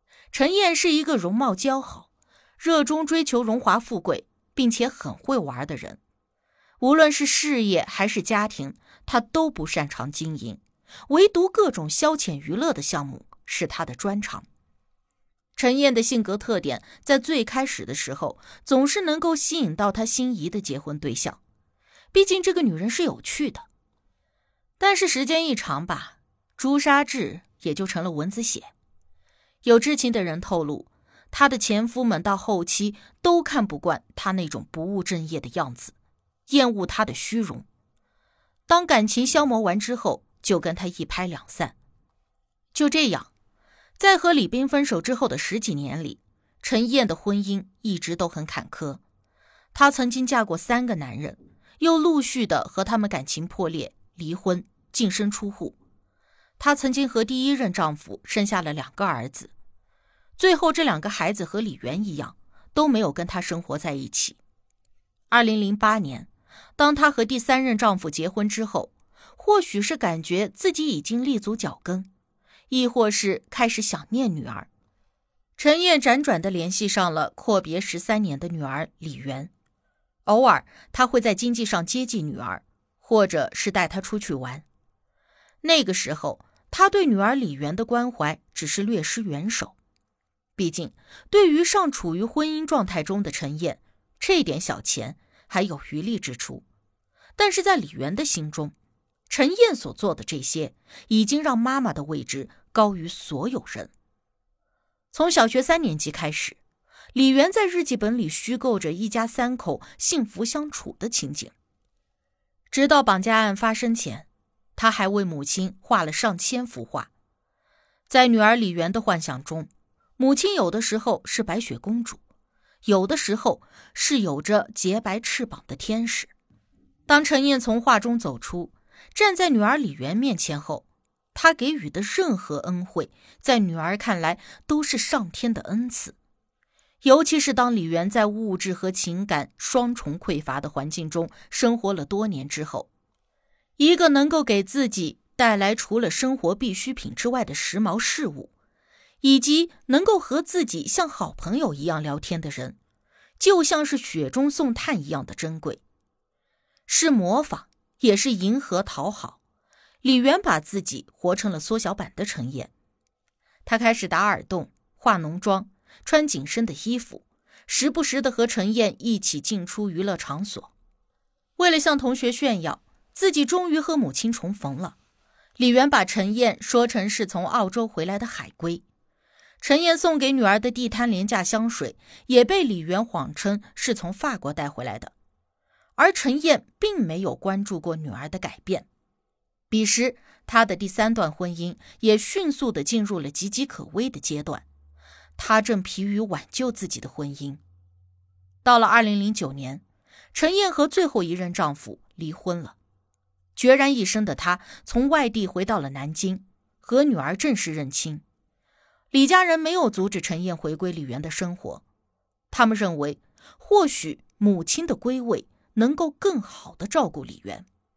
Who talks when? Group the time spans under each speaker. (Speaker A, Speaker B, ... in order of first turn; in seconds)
Speaker A: 0.3-6.0, 6.8-14.5, 15.6-21.4, 22.1-23.7, 24.8-28.7, 29.6-35.9, 36.5-37.7, 38.7-41.8, 42.7-43.3, 44.0-49.0, 49.7-55.8, 56.6-59.5, 60.4-64.4, 65.3-72.1, 72.7-74.7, 75.6-79.5, 80.3-84.7, 85.6-89.8, 90.6-96.7, 97.4-98.7, 99.3-103.9, 105.1-106.6, 107.1-111.5, 112.7-117.1, 118.1-122.2, 122.8-126.3, 127.1-136.2, 137.0-142.9, 143.8-148.5, 149.2-152.8, 153.4-155.8, 156.9-159.4, 160.0-162.7, 163.7-170.7, 171.6-175.0, 175.6-178.8, 179.6-185.1, 186.0-188.9, 189.7-194.6, 195.4-197.6, 198.6-199.8, 200.3-202.8, 203.6-208.2, 209.1-211.8, 212.5-217.7